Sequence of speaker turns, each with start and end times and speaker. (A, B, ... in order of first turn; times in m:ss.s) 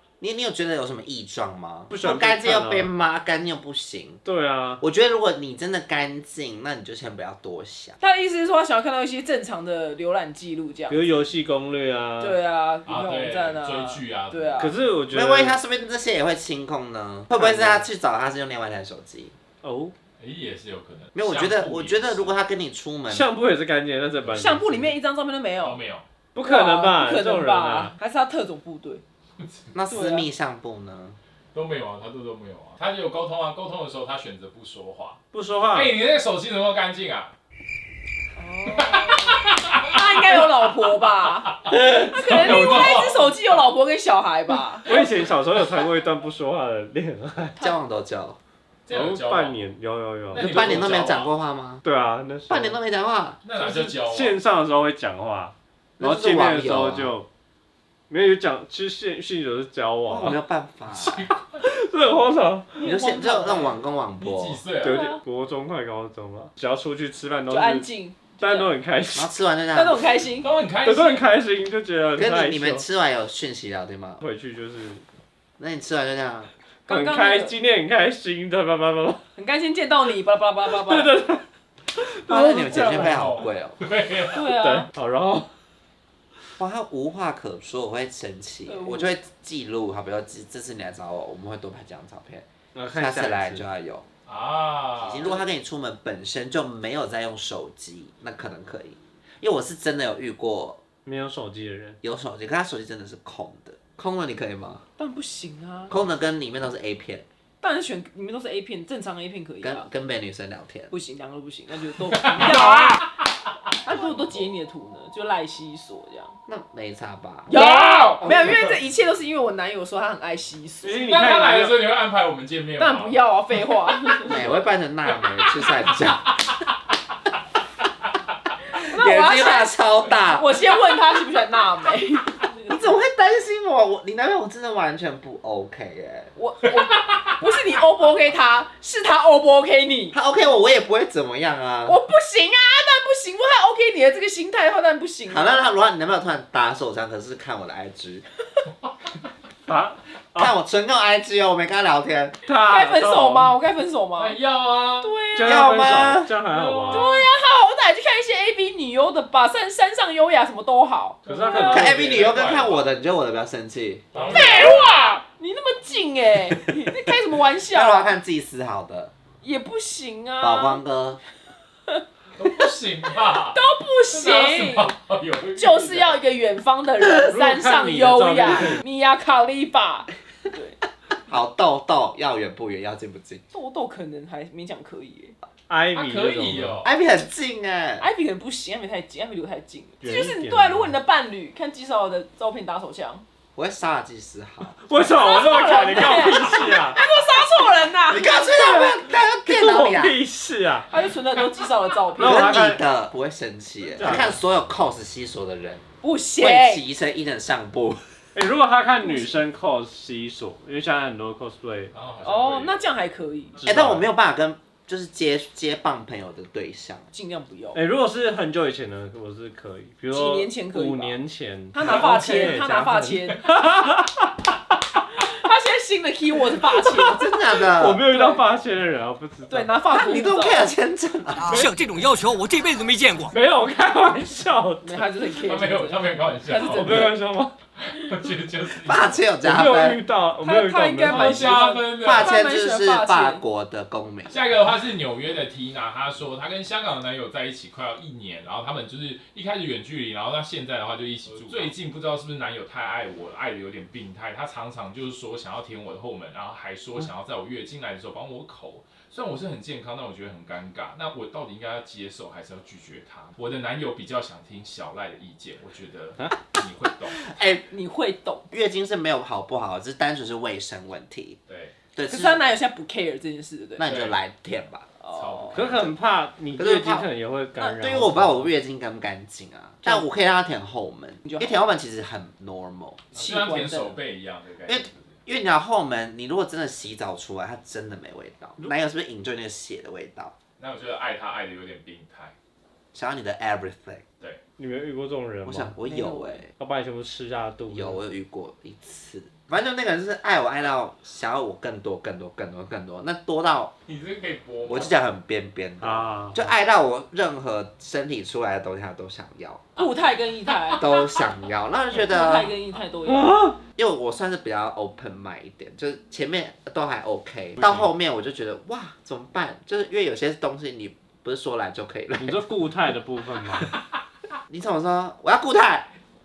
0:00.2-0:04.2 A
0:01.9-0:02.9 B
0:04.2-0:04.8 B
0:04.8-0:08.0 A
0:08.0-0:11.1 C
0:10.9-0:12.4 B
0:12.2-0:14.8 C
0:12.8-0:14.6 D
0:14.6-0:15.6 B
0:15.1-0:19.3 A
0:17.3-0:17.8 B
0:19.6-0:19.9 B
0:20.2-0:22.3 D
0:21.1-0:23.3 A
0:23.1-0:24.9 B
0:24.3-0:25.8 C
0:25.6-0:26.0 D
0:26.3-0:27.9 B
0:26.4-0:29.0 C
0:29.4-0:29.7 D
0:29.7-0:31.2 A
0:29.9-0:30.2 C
0:31.5-0:35.2 D
0:35.3-0:35.9 B
0:35.7-0:37.3 D
0:38.4-0:45.0 C
0:39.0-0:40.4 D
0:42.2-0:42.9 B
0:42.2-0:43.6 D
0:44.8-0:47.7 B
0:47.6-0:48.4 A
0:48.8-0:49.6 D
0:48.9-0:50.9 B
0:50.3-0:51.3 D
0:50.4-0:51.8 A
0:51.8-0:52.8 B
0:52.5-0:53.5 A
0:53.4-0:54.4 D
0:53.6-0:57.3 B
0:56.0-0:57.2 A
0:58.1-1:00.4 B
1:00.1-1:01.3 A
1:00.9-1:01.6 D
1:01.6-1:02.8 B
1:02.8-1:03.8 C
1:02.8-1:04.6 A
1:04.2-1:05.0 D
1:04.8-1:07.9 B
1:04.8-1:05.2 C
1:07.5-1:08.7 C
1:08.4-1:09.3 B
1:09.1-1:10.0 A
1:09.7-1:10.5 C
1:10.4-1:11.3 D
1:10.8-1:12.8 B
1:12.2-1:14.2 A
1:14.2-1:15.0 B
1:15.6-1:16.5 A
1:16.9-1:17.6 C
1:16.9-1:19.2 B
1:19.3-1:21.1 C
1:20.6-1:21.4 B
1:21.9-1:23.3 B
1:22.3-1:23.8 A
1:22.5-1:24.4 D
1:24.3-1:24.9 C
1:24.5-1:25.5 B
1:26.6-1:34.0 A
1:28.6-1:29.1 C
1:32.7-1:33.7 B
1:34.2-1:35.3 D
1:35.0-1:40.8 A
1:41.0-1:42.0 B
1:42.0-1:44.8 A
1:45.0-1:45.9 C
1:45.9-1:47.2 A
1:47.6-1:49.9 C
1:49.6-1:50.9 A
1:50.9-1:53.1 C
1:52.2-1:53.1 D
1:53.8-1:56.4 C
1:53.9-1:54.4 A
1:56.5-1:57.5 A
1:57.5-2:01.3 C
1:57.5-1:58.7 D
1:58.2-1:58.6 A
2:00.8-2:01.8 B
2:01.0-2:03.2 D
2:02.8-2:04.6 C
2:04.2-2:06.3 A
2:08.8-2:13.0 C
2:08.8-2:10.6 A
2:12.7-2:16.3 A
2:16.4-2:20.2 C
2:20.1-2:22.0 A
2:21.8-2:25.6 C
2:25.3-2:28.2 A
2:29.7-2:30.5 B
2:30.3-2:32.4 A
2:32.4-2:33.6 B
2:32.7-2:34.4 C
2:34.2-2:35.1 D
2:35.0-2:35.7 C
2:35.3-2:37.1 B
2:35.4-2:36.3 A
2:36.5-2:37.2 D
2:36.9-2:41.8 C
2:41.2-2:42.2 B
2:41.2-2:42.9 D
2:41.7-2:44.8 A
2:44.1-2:44.8 D
2:44.3-2:48.1 C
2:47.7-2:49.1 A
2:49.4-2:50.8 C
2:50.4-2:51.2 A
2:52.4-2:56.2 D
2:53.5-2:55.0 C
2:55.6-3:00.8 C
2:57.2-2:58.8 B
3:01.3-3:03.4 A
3:03.5-3:05.4 C
3:05.7-3:06.8 B
3:05.9-3:06.9 D
3:06.8-3:08.1 A
3:08.0-3:13.2 C
3:10.0-3:11.0 B
3:13.6-3:14.8 A
3:14.6-3:17.0 B
3:15.0-3:18.9 C
3:18.1-3:20.2 A
3:18.8-3:20.9 B
3:20.9-3:22.6 C
3:22.1-3:22.8 B
3:22.2-3:25.8 A
3:24.0-3:24.4 B
3:26.0-3:26.8 C
3:26.4-3:28.0 A
3:28.3-3:31.9 B
3:29.0-3:29.4 C
3:31.9-3:32.8 D
3:32.2-3:33.6 C
3:33.6-3:34.1 B
3:33.6-3:37.0 A
3:37.1-3:37.8 C
3:37.7-3:44.2 B
3:40.1-3:41.2 C
3:41.7-3:43.5 C
3:45.2-3:47.3 C
3:47.0-3:48.0 A
3:47.6-3:49.7 B
3:47.9-3:48.4 C
3:49.5-3:50.7 C
3:49.9-3:51.7 A
3:51.4-3:53.3 E
3:53.3-3:55.1 B
3:54.8-3:57.2 C
3:55.4-3:57.1 D
3:56.7-3:57.5 B
3:57.8-3:59.2 D
3:58.8-4:00.0 A
3:59.4-4:01.6 B
4:00.4-4:03.4 C
4:01.0-4:02.4 D
4:02.0-4:04.5 A
4:04.3-4:27.2 D
4:27.1-4:27.7 A
4:27.7-4:28.4 C
4:28.5-4:31.4 A
4:31.5-4:31.7 D
4:31.9-4:32.4 A
4:32.1-4:33.8 C
4:33.8-4:34.8 A
4:33.8-4:34.2 D
4:35.0-4:35.6 C
4:35.1-4:35.8 D
4:35.5-4:38.5 B
4:35.6-4:35.9 A
4:36.6-4:37.1 A
4:37.6-4:37.8 C
4:37.8-4:43.0 A
4:41.2-4:41.6 C
4:43.1-4:44.0 C
4:43.1-4:45.2 D
4:44.6-4:50.3 A
4:50.6-4:52.3 D
4:52.9-4:54.0 A
4:54.6-4:55.8 B
4:55.4-4:56.5 A
4:55.8-4:56.4 C
4:56.6-4:58.0 B
4:57.7-5:03.7 A
5:03.9-5:05.0 D
5:04.7-5:09.6 A
5:05.8-5:06.5 B
5:09.8-5:10.8 C
5:10.8-5:12.6 A
5:11.9-5:13.4 C
5:13.0-5:13.6 B
5:13.8-5:22.4 A
5:22.2-5:23.7 B
5:24.5-5:25.9 A